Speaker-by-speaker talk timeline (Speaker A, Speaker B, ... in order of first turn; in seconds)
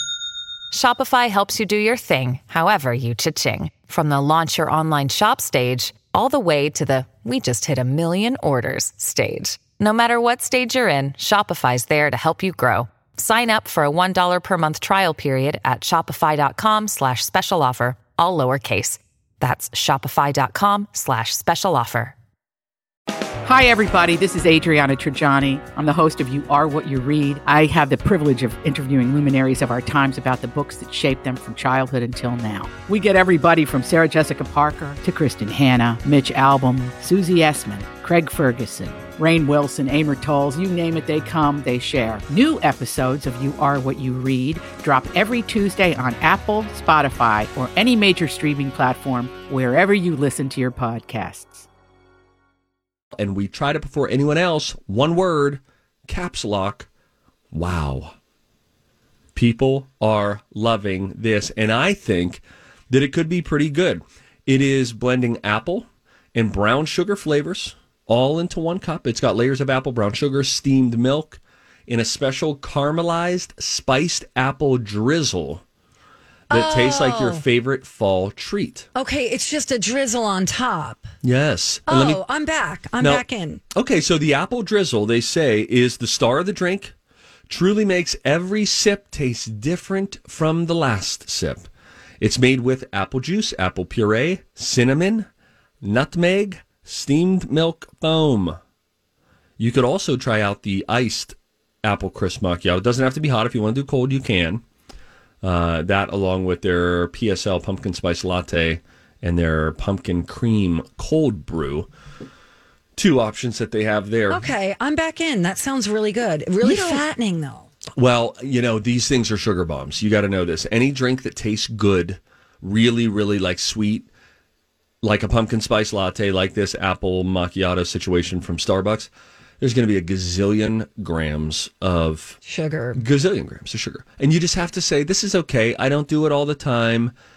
Speaker A: 0.7-22.2
Speaker B: 23.4-51.7
Speaker C: 53.2-56.9, 57.5-58.1, 59.4-75.6, 76.5-78.9, 81.2-82.2, 83.8-86.9, 87.5-91.7, 92.2-95.3, 95.8-98.6, 99.6-104.6, 105.4-111.9, 113.0-114.5, 116.6-117.0, 118.0-124.1, 125.0-132.4, 132.9-137.1
Speaker D: 76.5-77.4, 79.0-81.1, 81.9-83.6, 114.3-117.7, 132.4-133.0